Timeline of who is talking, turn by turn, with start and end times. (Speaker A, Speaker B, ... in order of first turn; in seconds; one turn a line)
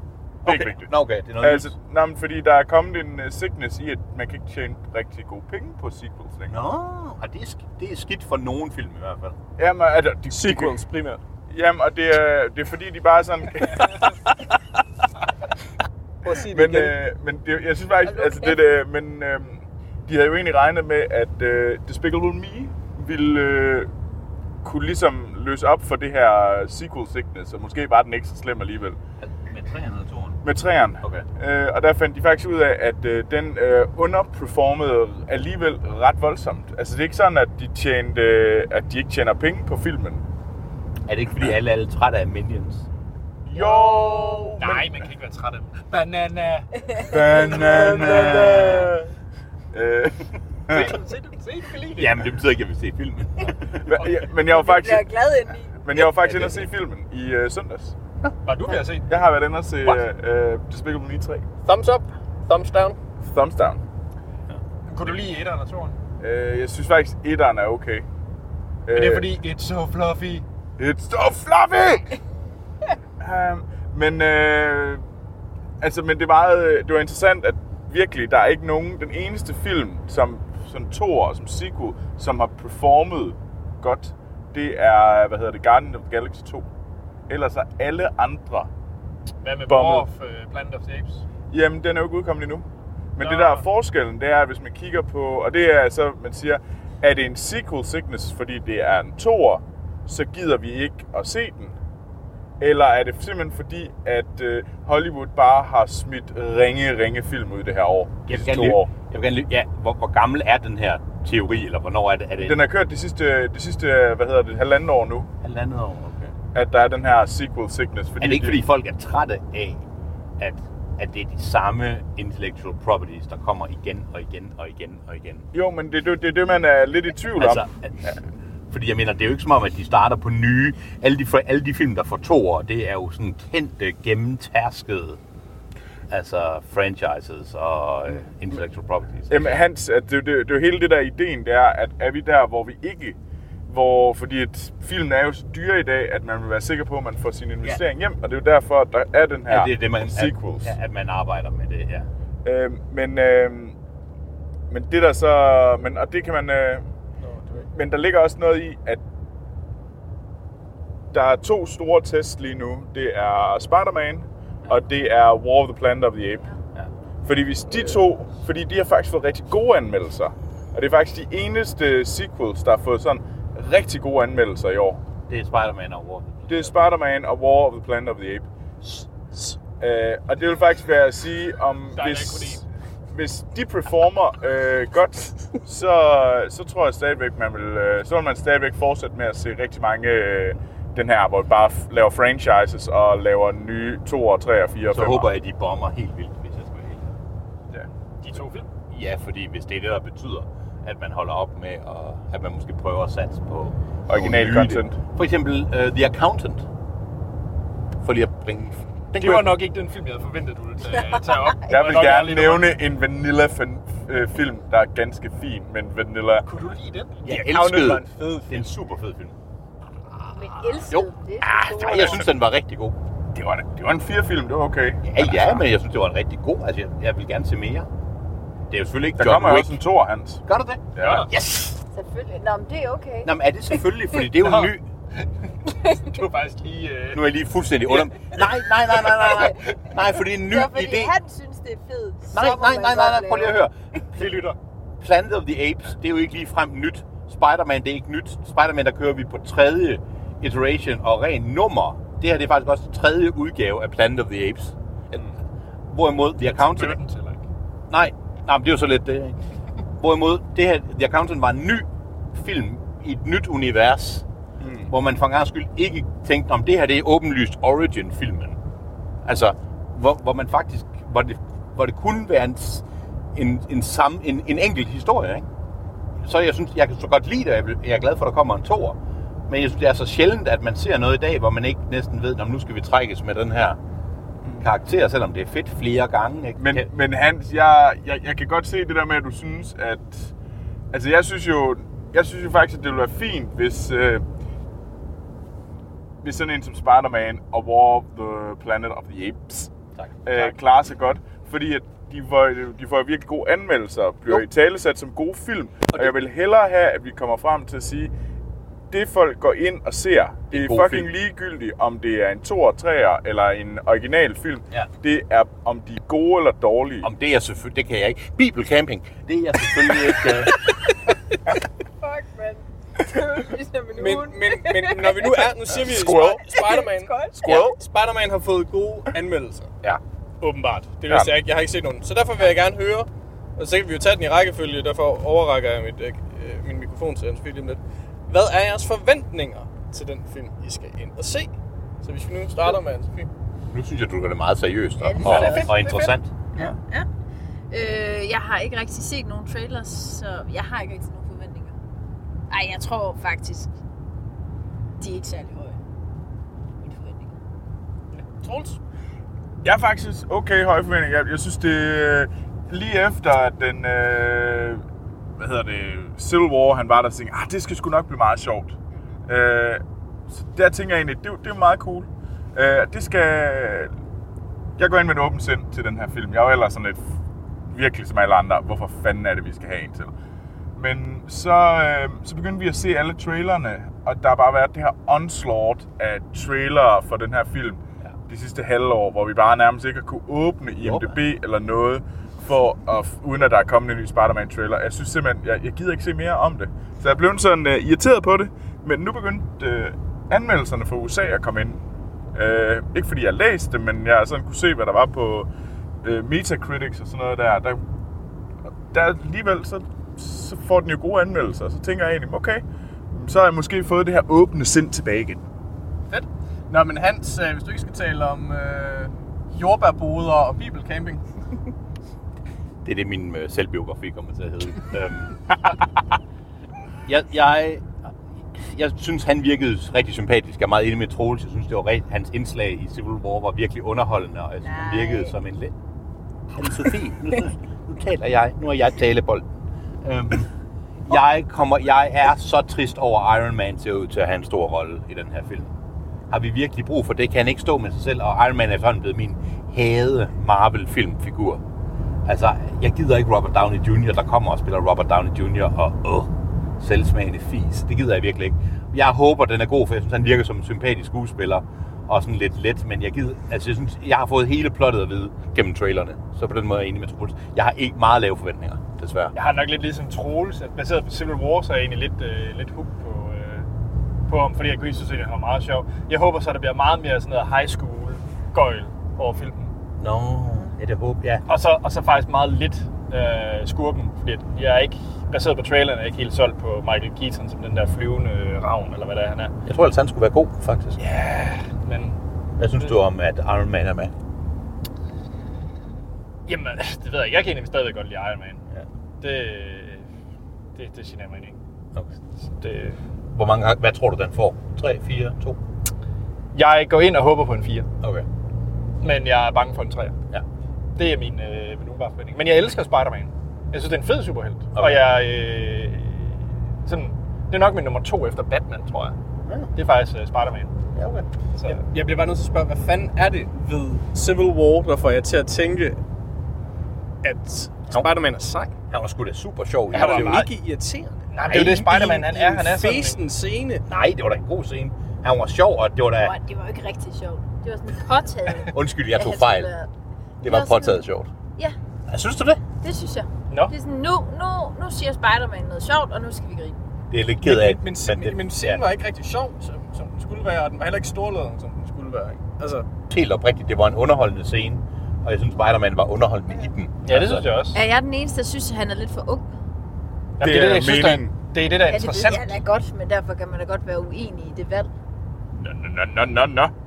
Speaker A: 0.4-0.9
Speaker B: 0.5-1.7
Speaker A: 1.4-6.7
Speaker B: 6.5-9.4
Speaker A: 9.6-10.8
Speaker C: 10.3-11.2
Speaker A: 11.5-14.1
Speaker C: 16.2-17.0
Speaker A: 16.5-23.9
Speaker D: 18.0-18.6
Speaker A: 24.6-29.0
Speaker B: 29.2-30.4
Speaker A: 30.4-40.2
Speaker B: 41.1-42.9
Speaker A: 43.5-44.9
Speaker D: 43.5-44.6
Speaker E: 44.6-48.5
Speaker D: 47.0-47.8
Speaker A: 47.0-48.9
Speaker C: 47.5-49.1
Speaker A: 49.7-50.9
Speaker E: 50.7-52.3
Speaker B: 52.0-53.9
Speaker A: 53.8-55.1
Speaker D: 54.5-55.8
Speaker A: 55.8-57.9
Speaker B: 56.0-56.7
Speaker E: 58.4-59.1
Speaker A: 59.1-61.5
Speaker C: 61.6-63.0
Speaker A: 63.2-63.8
Speaker B: 64.5-65.1
Speaker E: 64.9-66.0
Speaker A: 66.2-68.1
Speaker A: 68.9-69.3
Speaker E: 68.9-70.5
Speaker A: 70.8-72.1
Speaker A: 73.2-75.0
Speaker A: 75.8-86.7
Speaker A: 87.3-88.7
Speaker E: 89.4-91.2
Speaker A: 89.7-90.1
Speaker A: 91.5-101.8
Speaker E: 93.2-93.7
Speaker A: 102.6-108.9
Speaker B: 108.3-112.6
Speaker A: 112.4-115.3
Speaker B: 115.4-116.3
Speaker A: 116.5-118.6
Speaker B: 118.2-119.8
Speaker B: 120.4-125.5
Speaker A: 125.5-127.7
Speaker B: 127.4-128.2
Speaker B: 128.7-135.2
Speaker B: 136.1-139.6
Speaker A: 139.3-143.2
Speaker A: 143.7-150.7
Speaker B: 149.5-152.1
Speaker A: 152.4-153.8
Speaker A: 154.7-156.8
Speaker C: 157.2-157.7
Speaker A: 157.7-159.0
Speaker A: 161.1-166.5
Speaker A: 167.2-175.0
Speaker B: 175.3-176.8
Speaker A: 176.5-178.5
Speaker A: 179.6-195.3
Speaker E: 181.9-182.6
Speaker B: 194.9-197.1
Speaker E: 198.2-198.7
Speaker B: 198.9-206.6
Speaker A: 204.1-205.0
Speaker B: 208.0-209.6
Speaker E: 209.2-212.8
Speaker A: 211.7-216.5
Speaker E: 216.4-218.0
Speaker B: 217.2-219.3
Speaker C: 217.4-218.6
Speaker D: 220.3-222.3
Speaker B: 220.7-223.0
Speaker A: 223.3-225.6
Speaker B: 225.0-227.9
Speaker B: 228.7-229.8
Speaker A: 229.2-230.4
Speaker B: 230.5-231.8
Speaker A: 231.0-231.2
Speaker E: 231.0-231.3
Speaker D: 231.9-233.8
Speaker B: 233.2-234.8
Speaker E: 234.4-237.2
Speaker B: 237.1-241.1
Speaker E: 237.9-238.4
Speaker D: 239.3-239.7
Speaker D: 240.4-243.6
Speaker B: 242.3-244.2
Speaker E: 244.2-244.6
Speaker B: 245.0-254.8
Speaker B: 255.9-257.0
Speaker E: 256.4-257.5
Speaker B: 257.9-259.4
Speaker B: 260.0-264.2
Speaker A: 264.6-264.9
Speaker B: 264.9-268.6
Speaker B: 269.2-272.8
Speaker B: 273.4-275.5
Speaker B: 276.2-283.8
Speaker B: 284.6-286.9
Speaker A: 286.6-290.3
Speaker A: 290.9-294.2
Speaker A: 296.2-299.7
Speaker B: 300.0-300.6
Speaker A: 300.2-308.1
Speaker A: 308.9-317.1
Speaker B: 310.5-311.1
Speaker B: 317.0-320.6
Speaker D: 322.0-325.5
Speaker C: 324.0-329.7
Speaker A: 325.9-326.4
Speaker D: 326.1-327.6
Speaker B: 327.4-327.8
Speaker C: 330.4-343.3
Speaker A: 331.1-331.3
Speaker B: 343.7-346.7
Speaker D: 345.0-347.1
Speaker E: 345.2-346.0
Speaker D: 347.7-351.8
Speaker D: 352.5-353.7
Speaker D: 355.0-355.8
Speaker D: 356.8-357.3
Speaker E: 358.1-358.8
Speaker A: 359.6-364.8
Speaker A: 365.4-368.8
Speaker A: 369.3-369.8
Speaker A: 370.4-373.9
Speaker A: 374.8-377.0
Speaker A: 377.7-380.1
Speaker A: 380.8-401.8
Speaker B: 390.8-391.1
Speaker A: 402.4-405.5
Speaker A: 406.0-407.8
Speaker A: 408.9-415.4
Speaker C: 416.1-421.2
Speaker B: 422.8-425.4
Speaker B: 427.1-427.9
Speaker B: 428.5-435.7
Speaker D: 434.6-435.3
Speaker B: 436.5-439.4
Speaker B: 440.0-440.5
Speaker B: 441.1-445.7
Speaker B: 446.3-451.6
Speaker B: 452.3-469.4
Speaker E: 469.4-473.7
Speaker E: 474.3-479.7
Speaker B: 480.0-481.4
Speaker E: 481.5-489.5
Speaker B: 489.7-491.0
Speaker E: 491.1-492.2
Speaker B: 492.6-494.1
Speaker E: 496.5-498.6
Speaker E: 499.2-500.1
Speaker E: 500.8-501.6
Speaker E: 502.4-503.0
Speaker B: 503.3-505.6
Speaker E: 506.5-507.9
Speaker E: 509.0-510.1
Speaker E: 511.0-519.1
Speaker B: 514.8-515.0
Speaker B: 519.5-519.7
Speaker E: 519.8-520.7
Speaker B: 520.9-521.3
Speaker E: 521.6-521.8
Speaker C: 521.7-526.0
Speaker C: 527.2-528.7
Speaker B: 527.9-528.1
Speaker B: 528.9-530.5
Speaker C: 529.9-533.8
Speaker E: 529.9-530.5
Speaker E: 531.3-533.2
Speaker B: 531.5-531.9
Speaker B: 533.9-536.4
Speaker D: 536.2-539.9
Speaker B: 538.7-539.7
Speaker B: 540.4-541.3
Speaker D: 540.4-541.0
Speaker B: 542.1-542.6
Speaker D: 542.8-546.8
Speaker B: 547.1-548.9
Speaker C: 547.4-552.9
Speaker B: 553.1-557.5
Speaker E: 557.0-557.8
Speaker D: 557.7-559.5
Speaker E: 560.4-562.6
Speaker A: 560.4-561.4
Speaker D: 561.9-564.9
Speaker A: 565.6-566.7